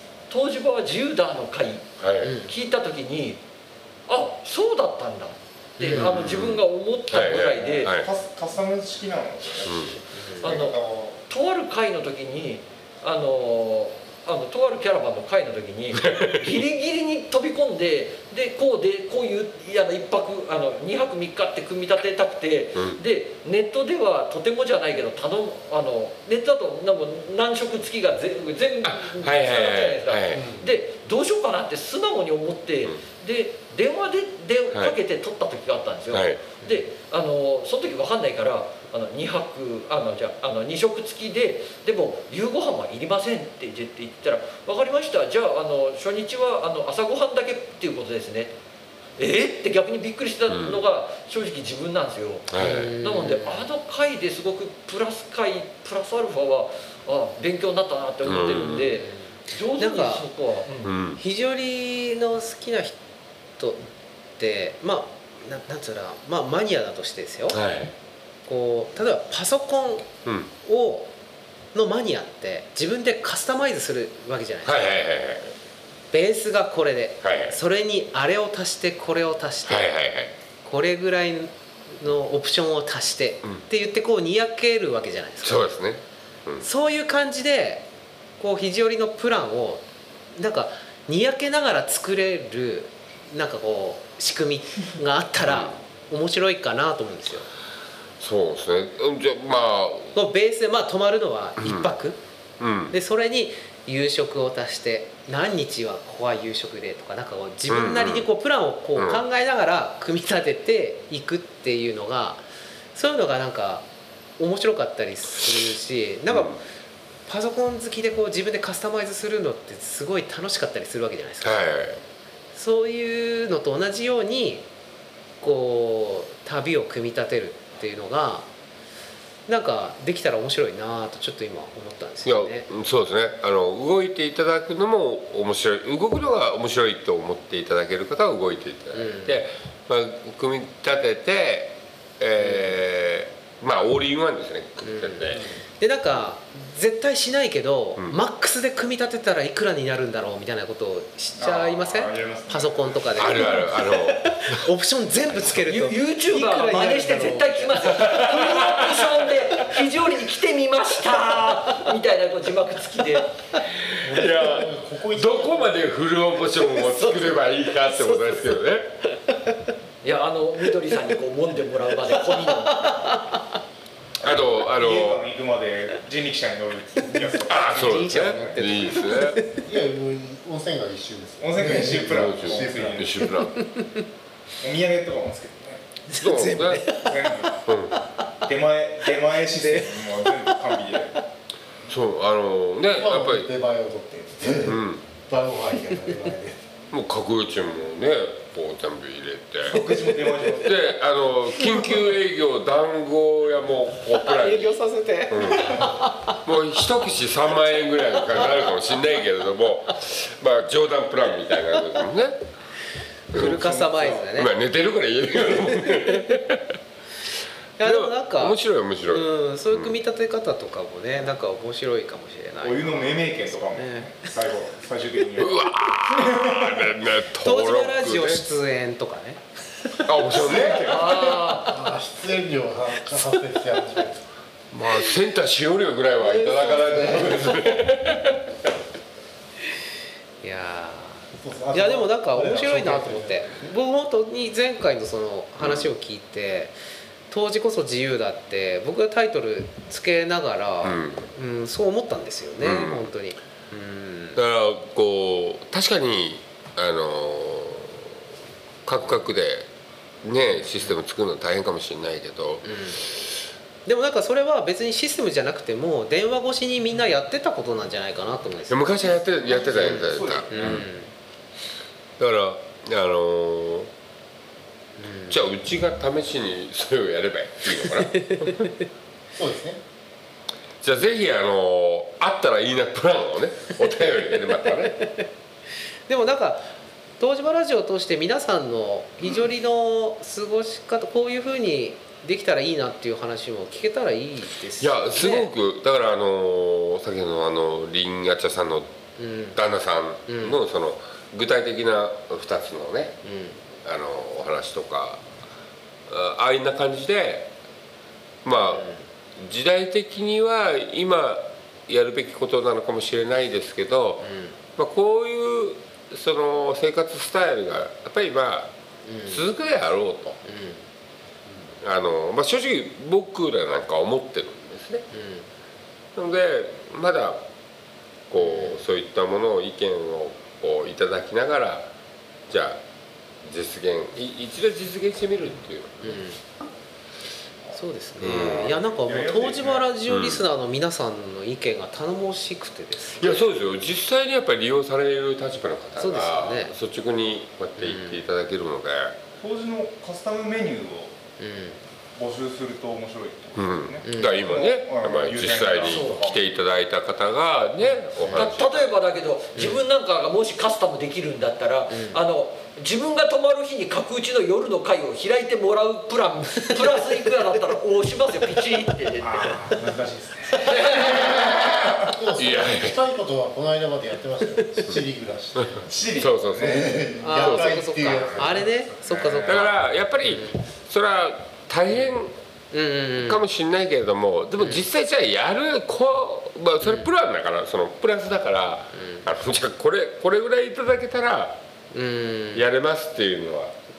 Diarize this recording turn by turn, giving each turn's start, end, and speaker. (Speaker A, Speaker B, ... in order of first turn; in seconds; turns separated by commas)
Speaker A: 0.3-3.4, Speaker B: 2.0-2.4, Speaker C: 2.2-2.5, Speaker A: 4.1-7.9, Speaker C: 5.8-6.1, Speaker B: 5.9-8.1, Speaker D: 7.4-11.2, Speaker B: 9.7-10.0, Speaker C: 10.1-10.6, Speaker A: 10.4-10.8, Speaker A: 11.3-48.5, Speaker B: 15.9-16.4, Speaker B: 22.8-23.0, Speaker B: 28.8-30.5, Speaker B: 36.1-36.5, Speaker A: 49.2-60.9, Speaker B: 50.5-50.8, Speaker B: 52.5-52.9, Speaker C: 52.6-53.7, Speaker B: 58.2-58.9, Speaker C: 58.9-60.3, Speaker B: 60.8-61.2, Speaker C: 61.2-63.0, Speaker C: 64.4-67.6, Speaker B: 67.5-67.9, Speaker C: 68.5-70.1, Speaker B: 70.2-70.5, Speaker C: 70.6-71.1, Speaker C: 71.7-74.9, Speaker B: 74.7-75.5, Speaker C: 76.1-80.0, Speaker B: 77.2-77.6, Speaker B: 79.7-80.3, Speaker C: 80.6-85.7, Speaker B: 85.4-86.7, Speaker C: 86.6-87.9, Speaker C: 88.4-89.8, Speaker C: 90.3-97.5, Speaker B: 95.5-95.7, Speaker B: 98.2-100.2, Speaker C: 100.1-102.2, Speaker B: 101.6-101.9, Speaker B: 102.6-103.0, Speaker C: 102.9-113.9, Speaker B: 107.7-108.3, Speaker B: 109.0-109.2, Speaker C: 114.4-116.6, Speaker B: 116.3-116.6, Speaker C: 117.3-121.7, Speaker B: 121.4-122.0, Speaker C: 122.5-124.7, Speaker C: 125.4-128.5, Speaker C: 129.5-132.7, Speaker B: 132.2-145.4, Speaker C: 138.9-139.3, Speaker C: 142.4-142.7, Speaker C: 144.8-157.9, Speaker D: 151.4-153.5, Speaker B: 153.2-154.6, Speaker A: 155.6-163.3, Speaker B: 158.0-159.1, Speaker B: 163.9-168.9, Speaker E: 164.0-165.8, Speaker C: 166.6-168.6, Speaker C: 169.1-169.5, Speaker A: 170.0-173.2, Speaker C: 172.6-173.4, Speaker B: 174.2-175.2, Speaker D: 174.2-178.7, Speaker C: 177.2-179.7, Speaker B: 177.5-179.4, Speaker E: 179.6-183.1, Speaker D: 181.4-183.1, Speaker B: 182.0-183.6, Speaker C: 183.5-184.1, Speaker D: 184.6-186.0, Speaker B: 186.1-187.0, Speaker C: 186.1-188.0, Speaker D: 186.9-187.7, Speaker B: 187.7-188.0, Speaker D: 188.4-191.1, Speaker C: 189.6-190.1, Speaker B: 191.9-193.5, Speaker E: 192.9-196.6, Speaker B: 194.7-195.0, Speaker B: 196.9-199.8, Speaker D: 199.7-200.9, Speaker C: 199.8-200.5, Speaker B: 200.6-204.8, Speaker C: 204.1-206.5, Speaker B: 205.3-205.8, Speaker B: 206.4-212.4, Speaker C: 207.9-209.0, Speaker C: 213.3-214.5, Speaker B: 213.3-216.8, Speaker D: 214.0-214.2, Speaker C: 215.8-216.2, Speaker C: 217.8-224.3, Speaker B: 217.8-220.0, Speaker D: 222.6-227.0, Speaker B: 225.4-228.4, Speaker C: 227.4-230.6, Speaker B: 230.1-230.9, Speaker D: 230.3-231.6, Speaker A: 230.8-231.8, Speaker C: 231.5-231.9, Speaker E: 231.6-234.2, Speaker B: 234.7-238.5, Speaker C: 236.2-237.8, Speaker C: 240.4-246.8, Speaker E: 241.4-243.7, Speaker B: 245.6-245.9, Speaker C: 247.3-254.4, Speaker B: 250.8-251.3, Speaker B: 252.6-253.1, Speaker B: 254.3-258.2, Speaker B: 258.9-259.7, Speaker B: 260.2-263.4, Speaker C: 260.6-260.9, Speaker C: 262.6-263.0, Speaker C: 263.9-269.2, Speaker B: 268.7-270.9, Speaker D: 269.4-270.8, Speaker C: 269.7-271.1, Speaker B: 272.2-273.9, Speaker C: 275.0-275.4, Speaker B: 275.3-278.7, Speaker C: 278.0-278.7, Speaker E: 279.3-279.8, Speaker B: 280.8-285.1, Speaker C: 286.1-295.5, Speaker B: 294.8-298.9, Speaker C: 299.2-299.6, Speaker B: 299.5-303.2, Speaker C: 300.3-300.6, Speaker C: 303.2-303.6, Speaker B: 303.8-305.2, Speaker B: 306.1-307.5, Speaker B: 308.4-318.7, Speaker C: 308.6-309.0, Speaker C: 314.2-314.6, Speaker C: 319.1-319.4, Speaker B: 319.3-320.4, Speaker C: 320.4-320.8, Speaker B: 321.8-325.0, Speaker C: 325.1-325.5, Speaker B: 326.2-327.4, Speaker B: 328.3-331.9, Speaker C: 328.4-328.8, Speaker B: 332.5-332.8, Speaker B: 333.4-336.2, Speaker C: 336.0-336.4, Speaker C: 337.7-343.4, Speaker B: 338.2-338.8, Speaker D: 338.6-339.9, Speaker B: 340.1-340.4, Speaker B: 343.1-349.2, Speaker C: 346.0-346.7, Speaker C: 347.8-348.2, Speaker D: 349.4-351.1, Speaker C: 351.4-351.8, Speaker D: 352.2-356.5, Speaker B: 353.6-358.9, Speaker C: 354.1-354.4, Speaker A: 355.9-356.2, Speaker A: 358.3-369.4, Speaker C: 359.6-359.8, Speaker C: 361.9-362.2, Speaker D: 369.2-370.8, Speaker A: 370.6-371.3, Speaker B: 370.8-373.0, Speaker E: 372.1-375.9, Speaker B: 375.6-377.8, Speaker D: 375.8-377.1, Speaker E: 376.5-378.7, Speaker C: 377.2-380.6, Speaker D: 377.8-379.7, Speaker B: 379.4-382.4, Speaker C: 382.7-383.4, Speaker B: 383.2-391.6, Speaker C: 384.6-384.9, Speaker C: 389.0-389.3, Speaker C: 391.9-392.6, Speaker B: 392.5-393.7